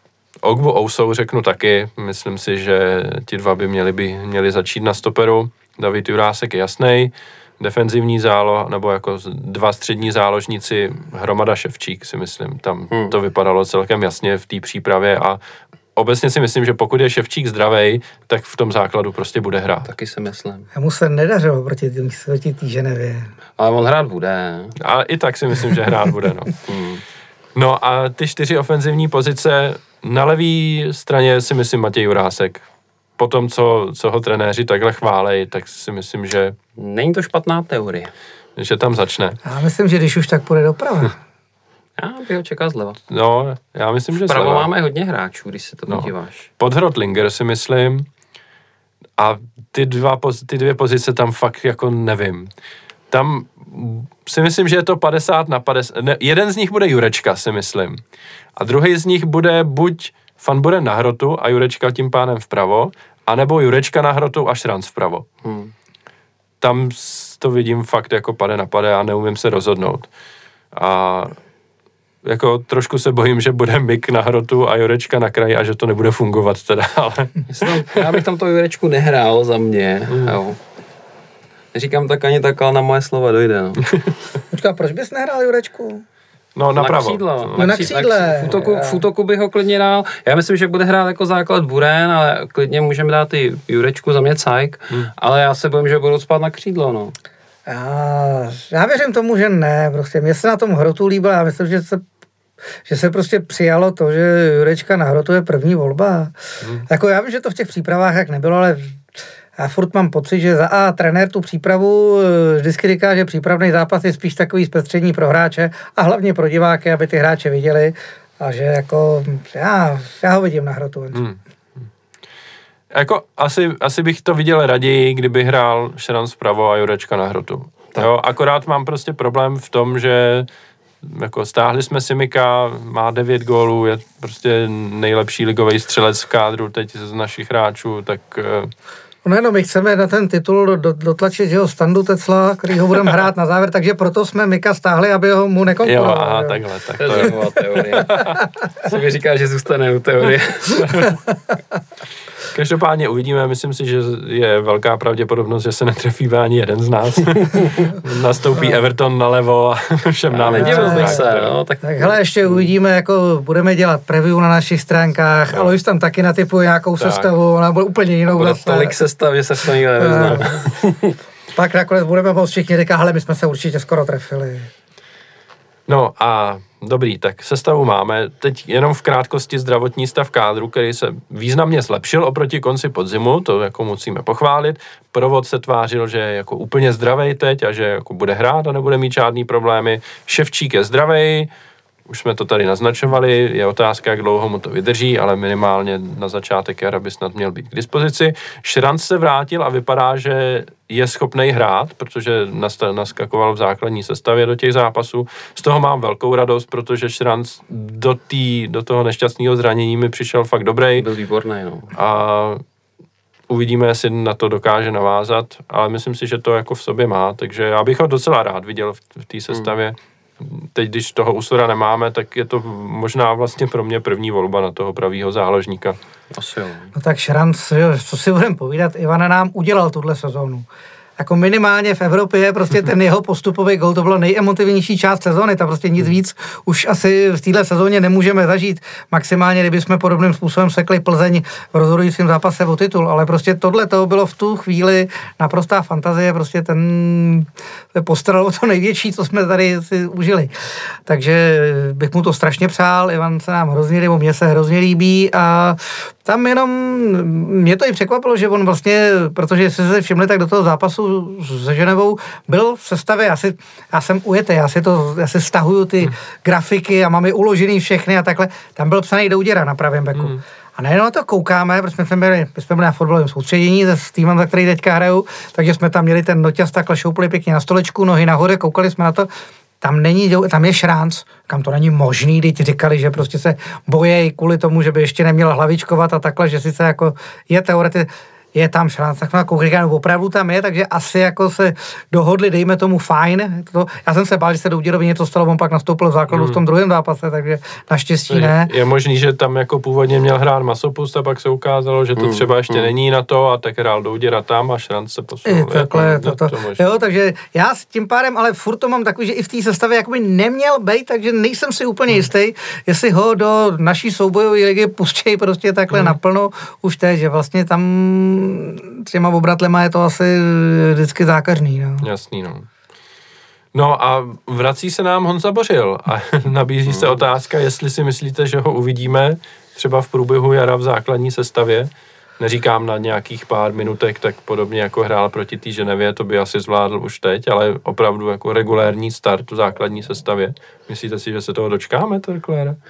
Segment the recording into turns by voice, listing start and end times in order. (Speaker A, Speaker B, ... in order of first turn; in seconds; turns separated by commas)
Speaker A: 0.4-15.4, Speaker B: 12.9-13.2, Speaker A: 16.0-19.9, Speaker B: 19.9-20.7, Speaker C: 20.7-23.3, Speaker B: 23.6-24.8, Speaker A: 24.8-26.7, Speaker B: 26.7-27.0, Speaker A: 27.6-32.6, Speaker A: 33.2-36.6, Speaker B: 36.8-38.1, Speaker A: 38.6-39.4, Speaker C: 39.4-41.2, Speaker B: 42.0-43.0, Speaker A: 43.1-44.7, Speaker B: 44.1-46.5, Speaker A: 45.9-48.1, Speaker A: 49.2-52.5, Speaker A: 53.1-58.0, Speaker A: 58.6-65.3, Speaker B: 65.4-65.7, Speaker A: 66.6-70.1, Speaker A: 70.7-71.3, Speaker A: 72.2-78.2, Speaker B: 77.5-80.6, Speaker A: 80.1-80.4, Speaker B: 81.7-84.0, Speaker C: 84.5-86.0, Speaker A: 86.5-87.8, Speaker B: 86.8-97.2, Speaker C: 87.6-89.0, Speaker C: 97.7-102.0, Speaker C: 102.8-106.3, Speaker C: 106.9-109.0, Speaker C: 109.6-121.3, Speaker A: 122.9-130.5, Speaker A: 131.0-138.7, Speaker C: 139.2-146.6, Speaker A: 145.8-148.4, Speaker B: 147.0-151.2, Speaker A: 152.5-161.5, Speaker B: 160.3-162.7, Speaker C: 160.6-161.2, Speaker C: 161.8-169.0, Speaker A: 167.0-167.3, Speaker B: 168.3-171.2, Speaker C: 170.0-170.7, Speaker C: 171.6-174.7, Speaker A: 175.9-191.5, Speaker A: 192.1-211.1, Speaker B: 211.0-211.9, Speaker A: 211.9-212.6, Speaker A: 213.5-226.0, Speaker B: 226.3-226.9, Speaker C: 226.9-230.7, Speaker C: 231.2-250.5, Speaker C: 251.1-279.3, Speaker C: 279.8-298.7, Speaker A: 296.3-296.6, Speaker A: 298.3-307.1, Speaker B: 302.2-302.9, Speaker C: 305.5-322.1, Speaker A: 315.9-316.2, Speaker A: 322.0-322.7, Speaker A: 323.7-342.8, Speaker B: 326.9-327.2